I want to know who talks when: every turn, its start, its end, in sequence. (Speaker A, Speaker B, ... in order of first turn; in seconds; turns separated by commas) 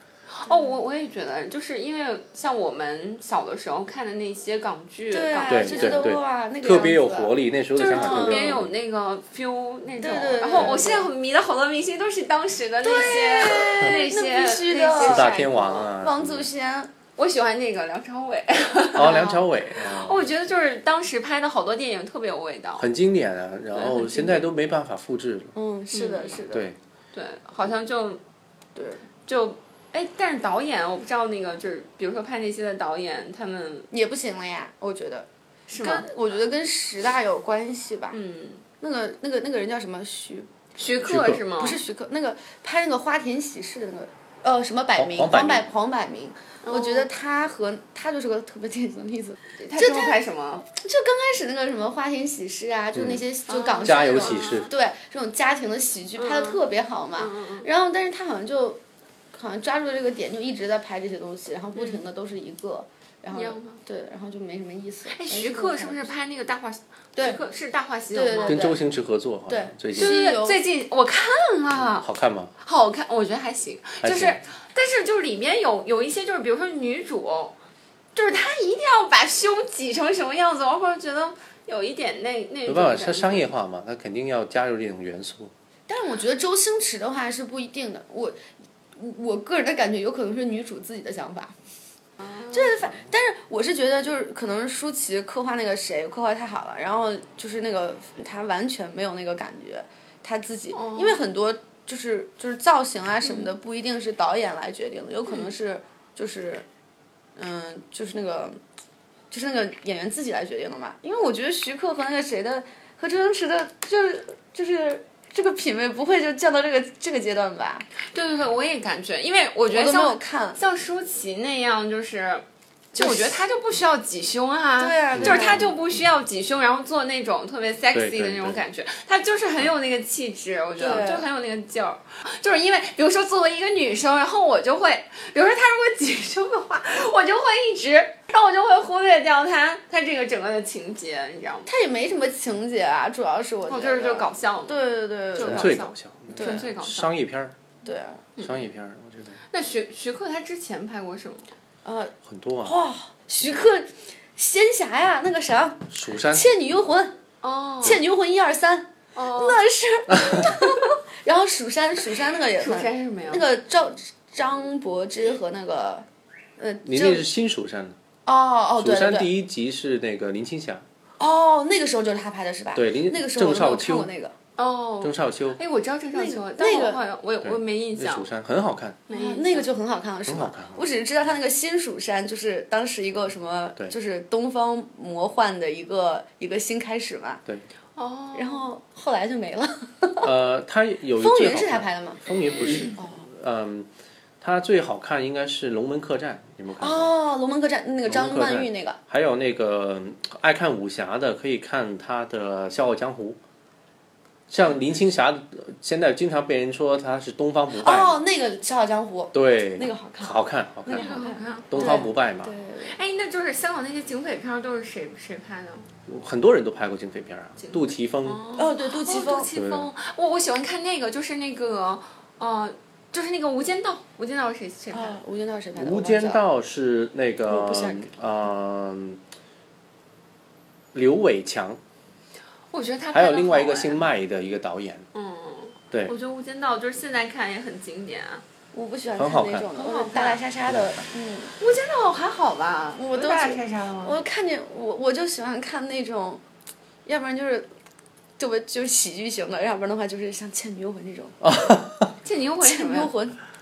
Speaker A: 0.3-6.2, Speaker B: 5.1-7.4, Speaker C: 5.5-8.7, Speaker A: 7.8-15.9, Speaker B: 7.9-8.6, Speaker B: 10.0-11.1, Speaker C: 10.5-10.8, Speaker B: 12.8-16.9, Speaker C: 15.0-16.5, Speaker A: 17.2-22.9, Speaker C: 18.9-20.3, Speaker C: 22.8-25.5, Speaker A: 23.7-24.5, Speaker B: 25.6-26.7, Speaker A: 25.9-26.4, Speaker C: 26.5-26.8, Speaker A: 27.1-28.2, Speaker B: 28.8-29.0, Speaker A: 29.3-33.9, Speaker B: 33.9-38.2, Speaker A: 35.7-36.1, Speaker A: 38.1-38.6, Speaker B: 38.8-40.5, Speaker A: 40.8-41.8, Speaker C: 41.1-41.4, Speaker B: 41.6-58.8, Speaker C: 45.0-45.7, Speaker A: 46.6-47.1, Speaker A: 49.6-50.6, Speaker C: 52.9-53.2, Speaker A: 53.5-54.7, Speaker C: 53.8-54.7, Speaker A: 56.2-56.6, Speaker A: 57.2-57.7, Speaker B: 59.3-66.1, Speaker A: 61.8-62.0, Speaker A: 63.3-63.8, Speaker A: 65.1-68.7, Speaker B: 68.1-68.8, Speaker C: 68.5-70.2, Speaker B: 69.5-70.6, Speaker A: 70.0-72.1, Speaker C: 72.0-72.5, Speaker A: 72.6-77.6, Speaker C: 74.0-74.4, Speaker A: 78.2-83.5, Speaker C: 82.7-85.5, Speaker B: 85.9-88.4, Speaker B: 89.0-91.5, Speaker A: 92.2-92.6, Speaker B: 92.5-106.7, Speaker A: 100.7-101.2, Speaker A: 103.2-103.5, Speaker A: 105.3-105.5, Speaker B: 107.4-108.6, Speaker B: 109.3-117.9, Speaker A: 118.1-141.7, Speaker B: 119.7-120.6, Speaker B: 123.0-123.4, Speaker B: 124.8-125.6, Speaker C: 125.1-126.0, Speaker C: 127.9-128.6, Speaker B: 130.8-131.3, Speaker B: 141.7-145.8, Speaker A: 143.7-147.1, Speaker C: 145.4-147.6, Speaker B: 146.3-146.7, Speaker B: 147.8-148.2, Speaker A: 148.4-148.7, Speaker C: 148.4-149.4, Speaker A: 149.5-151.5, Speaker B: 151.8-157.2, Speaker C: 152.3-152.8, Speaker C: 155.9-156.5, Speaker A: 157.4-158.0, Speaker B: 157.8-166.1, Speaker A: 159.2-159.6, Speaker C: 160.2-160.6, Speaker A: 162.6-163.5, Speaker B: 166.6-167.3, Speaker C: 166.8-168.0, Speaker B: 168.2-169.3, Speaker C: 168.8-170.8, Speaker B: 171.2-174.3, Speaker C: 172.7-174.1, Speaker A: 174.6-178.3, Speaker C: 175.0-175.6, Speaker B: 176.1-177.0, Speaker C: 177.4-179.0, Speaker A: 179.1-179.7, Speaker B: 179.1-187.4, Speaker C: 180.3-180.8, Speaker A: 188.0-188.7, Speaker B: 188.3-190.3, Speaker C: 190.2-193.9, Speaker B: 191.2-193.2, Speaker A: 192.7-192.9, Speaker C: 194.4-197.1, Speaker B: 196.8-199.0, Speaker C: 198.1-203.4, Speaker C: 204.5-208.2, Speaker B: 207.8-213.0, Speaker C: 209.3-212.5, Speaker A: 210.9-212.1, Speaker A: 212.8-215.9, Speaker C: 216.1-218.4, Speaker A: 217.6-225.2, Speaker B: 218.6-219.5, Speaker C: 219.5-219.9, Speaker B: 224.9-226.4, Speaker C: 225.7-229.2, Speaker B: 227.5-228.1, Speaker C: 230.9-231.8, Speaker A: 232.7-234.1, Speaker C: 233.1-235.1, Speaker A: 235.1-238.4, Speaker B: 238.7-241.5, Speaker C: 239.2-239.7, Speaker A: 239.7-240.4, Speaker C: 240.7-241.0, Speaker A: 241.6-244.2, Speaker B: 243.0-246.4, Speaker B: 247.1-247.7, Speaker B: 248.4-251.4, Speaker C: 251.4-252.1, Speaker A: 252.2-253.2, Speaker B: 252.6-253.4